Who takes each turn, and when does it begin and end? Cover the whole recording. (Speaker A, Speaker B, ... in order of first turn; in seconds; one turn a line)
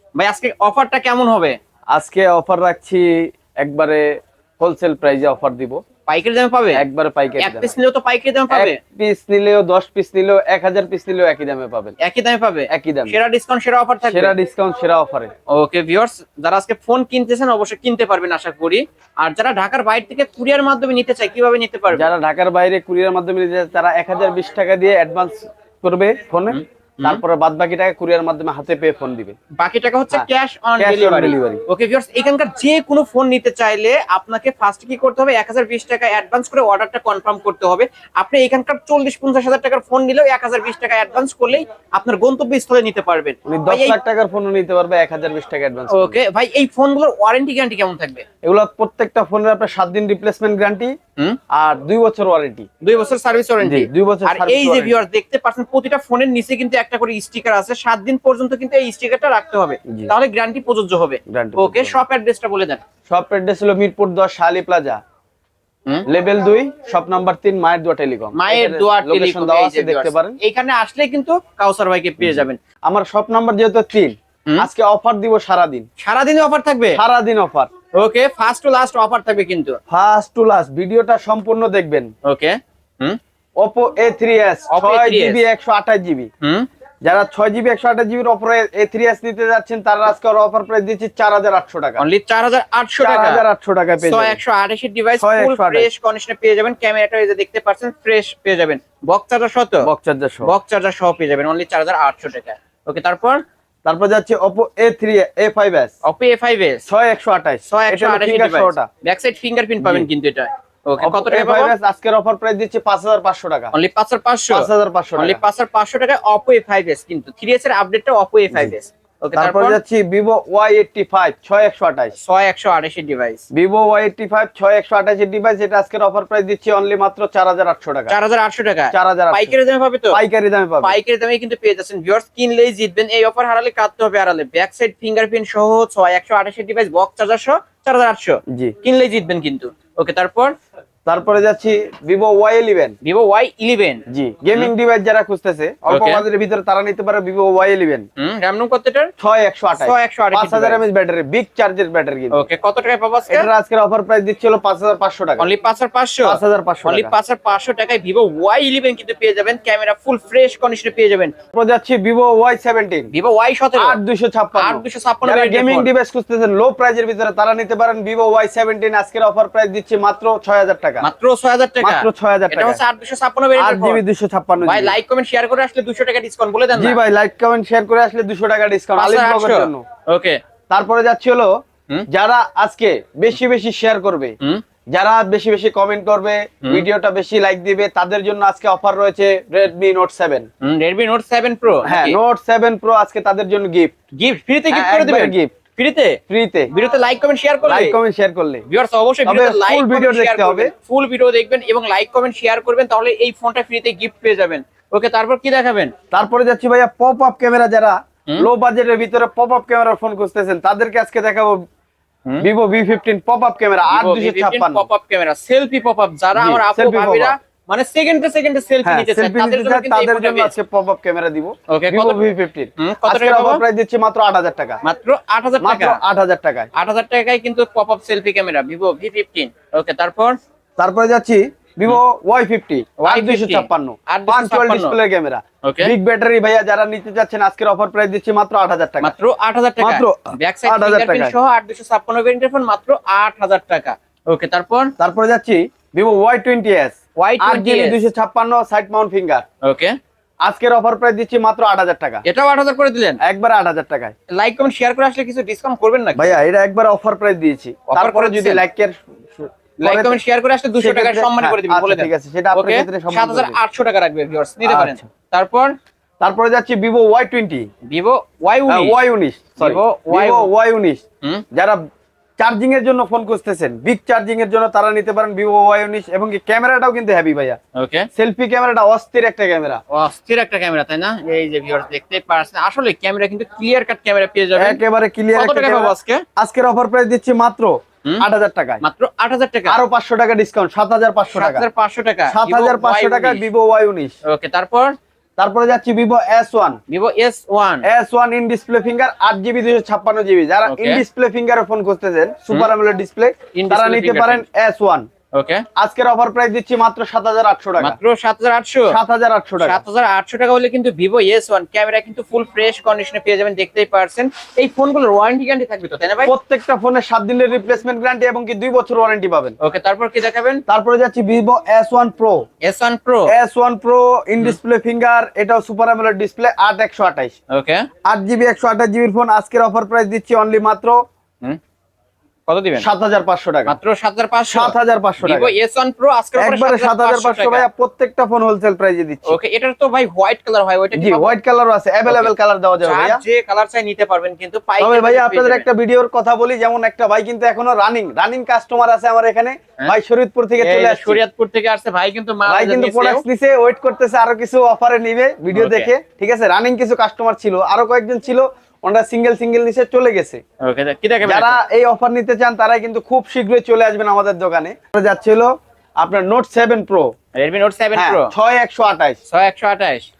Speaker A: 0.1-1.6
Speaker B: 1.9-4.1
Speaker B: 4.6-5.8
Speaker A: 6.1-6.8
Speaker B: 6.7-7.7
Speaker A: 7.4-8.8
Speaker B: 8.5-11.9
Speaker A: 12.0-14.3
Speaker B: 12.7-13.2
Speaker B: 14.1-15.3
Speaker A: 15.5-22.1
Speaker B: 21.9-29.4
Speaker A: 26.5-27.2
Speaker A: 29.6-44.0
Speaker B: 30.8-31.6
Speaker B: 43.5-46.2
Speaker A: 45.9-48.2
Speaker B: 48.4-50.9
Speaker B: 51.5-52.7
Speaker A: 52.8-62.8
Speaker B: 53.6-55.0
Speaker B: 61.3-62.0
Speaker B: 63.1-65.0
Speaker B: 66.1-70.4
Speaker A: 68.3-72.6
Speaker B: 72.2-75.9
Speaker A: 76.0-77.0
Speaker B: 76.9-77.7
Speaker A: 78.0-79.8
Speaker B: 79.9-82.1
Speaker A: 82.2-83.2
Speaker B: 83.6-86.3
Speaker A: 84.7-85.4
Speaker A: 86.4-86.7
Speaker B: 87.0-92.0
Speaker A: 92.0-93.4
Speaker B: 93.0-94.4
Speaker A: 94.0-99.9
Speaker B: 95.2-95.9
Speaker B: 99.8-100.5
Speaker A: 100.4-103.4
Speaker B: 103.8-105.9
Speaker A: 106.0-106.9
Speaker B: 106.9-108.9
Speaker A: 107.7-111.7
Speaker B: 109.8-110.1
Speaker B: 111.0-113.7
Speaker A: 113.7-119.8
Speaker B: 114.5-115.4
Speaker B: 119.3-122.2
Speaker A: 122.2-123.4
Speaker B: 123.5-128.1
Speaker A: 128.1-130.2
Speaker B: 128.9-129.5
Speaker B: 130.1-130.9
Speaker A: 130.8-140.5
Speaker B: 141.1-142.9
Speaker A: 143.0-144.7
Speaker B: 144.1-148.1
Speaker A: 145.9-146.2
Speaker A: 148.2-149.1
Speaker B: 149.2-152.4
Speaker A: 149.8-150.8
Speaker A: 152.3-153.5
Speaker B: 153.3-155.5
Speaker A: 155.4-161.3
Speaker B: 156.2-157.1
Speaker B: 161.5-163.1
Speaker A: 163.1-164.0
Speaker B: 163.8-171.1
Speaker A: 164.6-165.9
Speaker A: 171.0-174.0
Speaker B: 171.8-172.8
Speaker B: 173.6-174.9
Speaker A: 174.6-177.0
Speaker B: 176.7-179.8
Speaker A: 179.0-180.4
Speaker B: 180.7-181.5
Speaker B: 182.1-184.3
Speaker B: 184.9-190.5
Speaker A: 190.6-192.2
Speaker B: 191.8-193.9
Speaker A: 194.2-196.2
Speaker B: 194.7-195.5
Speaker B: 196.3-196.7
Speaker A: 196.7-197.9
Speaker B: 197.6-198.6
Speaker A: 198.7-205.9
Speaker B: 199.2-200.7
Speaker B: 206.1-211.6
Speaker B: 212.4-214.8
Speaker A: 213.9-220.5
Speaker B: 216.3-217.3
Speaker B: 218.8-224.8
Speaker A: 221.7-222.2
Speaker A: 222.8-223.6
Speaker A: 224.8-226.0
Speaker B: 225.6-226.7
Speaker A: 226.7-230.4
Speaker B: 230.8-239.1
Speaker A: 233.0-235.0
Speaker A: 235.6-235.9
Speaker A: 239.0-244.9
Speaker B: 239.8-241.3
Speaker B: 245.0-249.4
Speaker A: 247.2-248.0
Speaker A: 249.6-250.0
Speaker B: 250.4-252.2
Speaker A: 252.2-253.2
Speaker B: 253.2-254.1
Speaker A: 254.3-256.4
Speaker B: 256.2-260.2
Speaker A: 257.9-258.6
Speaker A: 259.8-265.7
Speaker B: 260.8-263.6
Speaker B: 264.6-265.0
Speaker B: 266.2-267.7
Speaker A: 267.9-268.9
Speaker B: 268.7-271.0
Speaker A: 269.6-270.5
Speaker B: 272.4-277.6
Speaker A: 277.7-278.1
Speaker B: 278.1-279.8
Speaker A: 279.9-284.8
Speaker B: 284.6-288.8
Speaker A: 285.3-286.2
Speaker A: 288.8-289.8
Speaker B: 289.7-291.6
Speaker A: 291.3-293.4
Speaker B: 292.3-294.1
Speaker A: 294.2-294.9
Speaker B: 295.4-296.8
Speaker A: 296.9-297.9
Speaker B: 297.8-305.1
Speaker A: 300.6-301.0
Speaker A: 303.5-304.4
Speaker A: 305.3-305.6
Speaker B: 305.8-308.0
Speaker A: 307.8-308.9
Speaker B: 308.9-309.8
Speaker A: 309.6-316.3
Speaker B: 316.2-319.6
Speaker A: 319.6-320.6
Speaker B: 320.7-322.4
Speaker A: 322.6-323.3
Speaker B: 323.3-327.3
Speaker A: 327.5-327.9
Speaker B: 328.1-330.9
Speaker A: 332.5-332.8
Speaker B: 332.8-333.7
Speaker A: 333.7-337.7
Speaker B: 334.5-335.5
Speaker B: 336.4-339.4
Speaker A: 339.2-341.3
Speaker B: 340.9-343.2
Speaker A: 342.1-345.6
Speaker B: 344.8-351.2
Speaker A: 350.6-353.2
Speaker B: 352.4-360.4
Speaker A: 355.5-355.9
Speaker A: 360.6-361.6
Speaker B: 361.2-367.1
Speaker A: 367.3-368.3
Speaker B: 367.9-369.2
Speaker A: 369.3-370.1